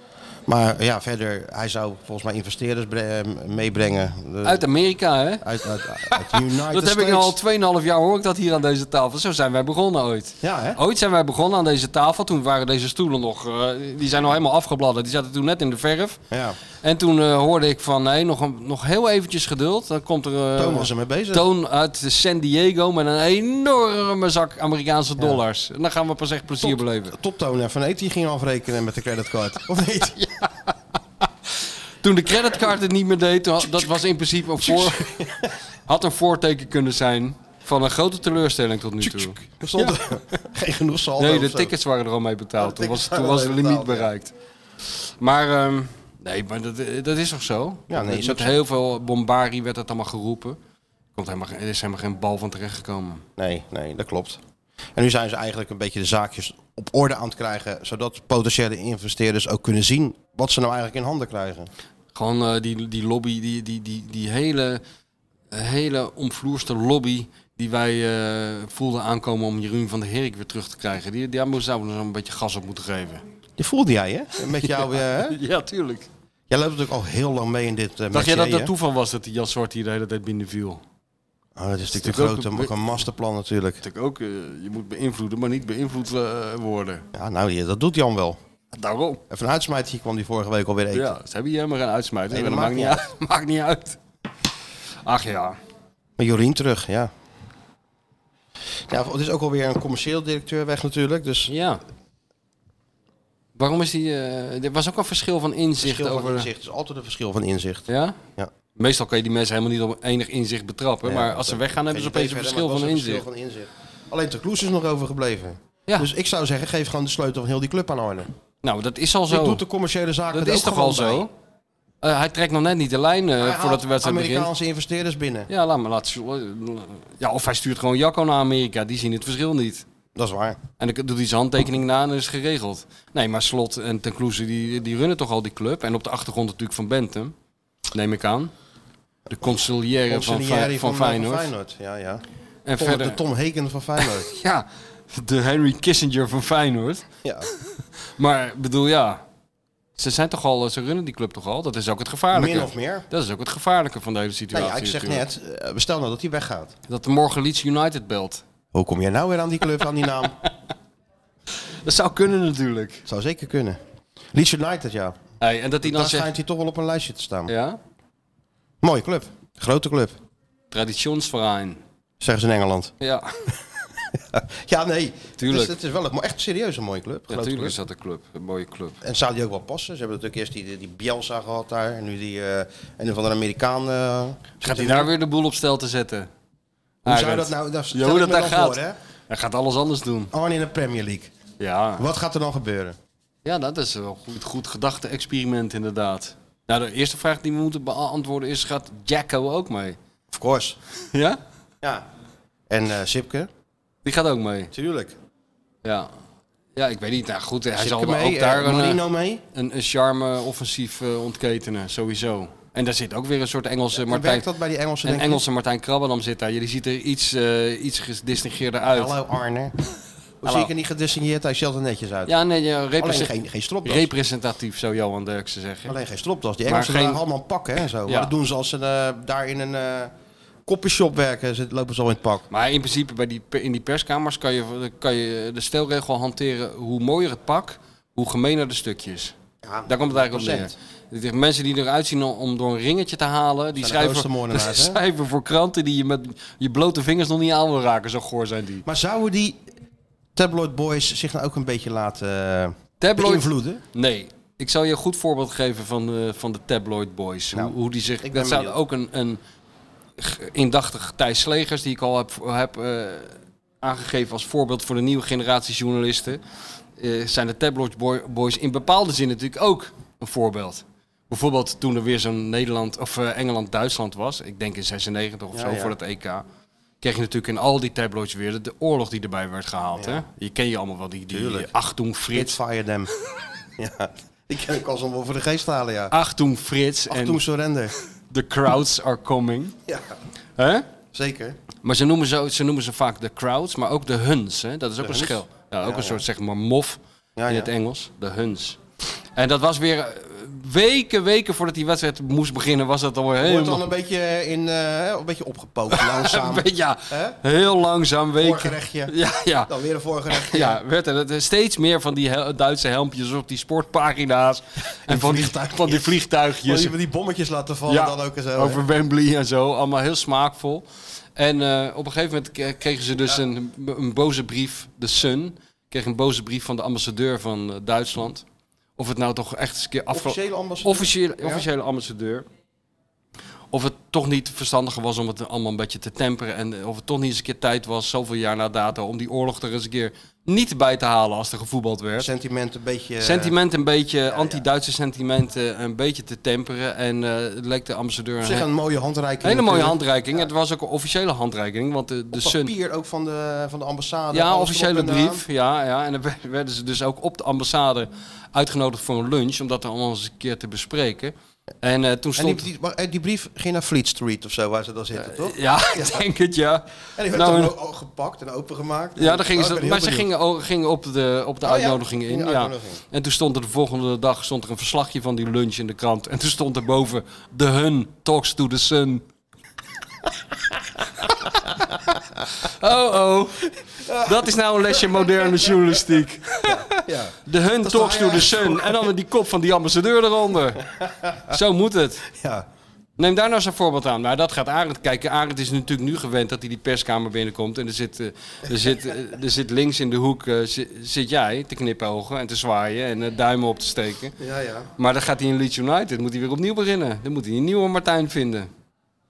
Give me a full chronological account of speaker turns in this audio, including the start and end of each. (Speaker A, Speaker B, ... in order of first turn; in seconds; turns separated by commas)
Speaker A: 0.5-4.6, Speaker B: 4.4-5.5, Speaker A: 5.4-7.4, Speaker B: 6.1-16.2, Speaker A: 10.4-10.8, Speaker A: 16.3-16.6, Speaker B: 16.8-27.1, Speaker A: 20.6-21.5, Speaker A: 26.6-30.3, Speaker B: 32.0-35.1, Speaker A: 34.6-35.5, Speaker B: 35.9-40.0, Speaker A: 39.0-41.7, Speaker B: 41.2-44.3, Speaker A: 42.6-44.1, Speaker B: 45.2-50.6, Speaker A: 47.9-48.6, Speaker B: 51.1-53.2, Speaker A: 53.4-54.4, Speaker A: 55.0-61.7, Speaker B: 62.1-64.8, Speaker B: 65.5-73.2, Speaker A: 73.6-75.4, Speaker B: 74.5-76.1, Speaker A: 76.5-78.7, Speaker B: 78.1-80.8, Speaker A: 81.5-83.8, Speaker B: 81.9-83.0, Speaker B: 83.8-87.0, Speaker A: 87.1-88.4, Speaker B: 88.7-89.2, Speaker A: 89.3-91.2, Speaker B: 90.9-94.0, Speaker A: 92.3-93.0, Speaker B: 95.0-95.6, Speaker A: 96.2-97.1, Speaker A: 98.9-101.5, Speaker B: 101.5-101.8, Speaker B: 103.5-106.5, Speaker A: 105.8-108.5, Speaker B: 107.9-108.2, Speaker B: 108.8-113.2, Speaker A: 111.0-118.3, Speaker B: 118.6-119.6, Speaker A: 119.3-121.3, Speaker B: 120.3-121.3, Speaker B: 122.0-124.5, Speaker A: 123.4-125.5, Speaker B: 125.5-129.8, Speaker A: 130.1-130.6, Speaker B: 130.8-137.3, Speaker B: 137.9-138.5, Speaker B: 139.3-141.5, Speaker A: 140.1-142.2, Speaker B: 142.7-143.2, Speaker A: 142.8-144.3, Speaker B: 144.0-147.1, Speaker B: 148.2-149.2, Speaker B: 150.0-155.2, Speaker A: 152.3-153.1, Speaker A: 154.5-156.7, Speaker B: 156.9-158.4, Speaker A: 158.7-160.3, Speaker B: 161.8-163.1, Speaker A: 163.1-163.8, Speaker A: 164.3-165.2, Speaker B: 165.4-166.3, Speaker A: 165.8-167.5, Speaker B: 167.5-167.8, Speaker A: 168.8-170.2, Speaker B: 170.7-171.8, Speaker A: 172.2-172.9, Speaker B: 173.0-173.5, Speaker A: 174.1-177.8, Speaker B: 175.4-175.7, Speaker B: 177.3-179.0, Speaker A: 179.0-185.1, Speaker B: 184.6-186.3, Speaker A: 187.0-189.0, Speaker B: 187.0-190.3, Speaker A: 190.3-191.3, Speaker B: 191.6-192.1, Speaker A: 192.0-192.9, Speaker B: 193.4-200.0, Speaker A: 200.3-200.8, Speaker B: 201.1-201.4, Speaker A: 202.7-203.5, Speaker B: 204.0-204.7, Speaker A: 204.7-205.2, Speaker B: 205.8-206.1, Speaker B: 206.8-209.0, Speaker A: 207.8-209.4, Speaker B: 209.5-214.5, Speaker A: 213.9-215.4, Speaker B: 215.0-219.2, Speaker A: 218.9-219.7, Speaker A: 220.4-222.3, Speaker B: 222.3-223.3, Speaker A: 223.0-224.1, Speaker B: 223.8-225.9, Speaker A: 225.8-230.1, Speaker B: 226.7-227.2, Speaker B: 228.1-228.3, Speaker A: 230.7-232.4, Speaker B: 232.5-239.3, Speaker A: 239.6-240.7, Speaker B: 239.9-248.8, Speaker A: 243.8-245.0, Speaker A: 248.8-249.6, Speaker A: 250.3-253.8, Speaker B: 253.0-259.4, Speaker A: 257.5-258.8, Speaker B: 260.2-266.4, Speaker B: 267.0-276.4, Speaker A: 275.5-275.9, Speaker B: 277.0-282.6, Speaker A: 280.0-280.2, Speaker A: 281.3-281.7, Speaker A: 282.3-283.1, Speaker A: 283.8-286.1, Speaker B: 286.1-287.4, Speaker A: 287.1-287.9, Speaker B: 288.3-289.7, Speaker A: 289.9-290.1, Speaker B: 290.6-290.9, Speaker A: 291.1-291.6, Speaker B: 291.8-298.8, Speaker A: 295.0-296.2, Speaker A: 297.4-297.7, Speaker B: 299.4-303.8, Speaker A: 303.4-307.4, Speaker B: 305.9-309.7, Speaker A: 308.4-309.1, Speaker A: 309.7-310.8, Speaker B: 310.3-316.9, Speaker A: 315.1-318.8, Speaker B: 317.9-320.8, Speaker B: 321.4-328.4, Speaker B: 329.0-332.4, Speaker A: 330.1-331.6, Speaker B: 333.7-342.3, Speaker A: 342.2-343.5, Speaker B: 343.2-348.7, Speaker A: 344.3-344.6, Speaker A: 348.4-350.5, Speaker B: 349.4-352.7, Speaker A: 352.3-355.4, Speaker B: 354.3-362.6, Speaker A: 362.4-366.2, Speaker B: 365.2-367.7, Speaker A: 367.1-370.3, Speaker B: 369.2-379.2, Speaker A: 371.6-373.0, Speaker B: 382.5-386.9, Speaker A: 384.1-384.4, Speaker A: 386.6-389.1, Speaker B: 387.4-390.9, Speaker B: 391.4-392.3, Speaker A: 392.3-392.6, Speaker B: 393.2-404.4, Speaker A: 404.4-404.9, Speaker B: 405.0-408.7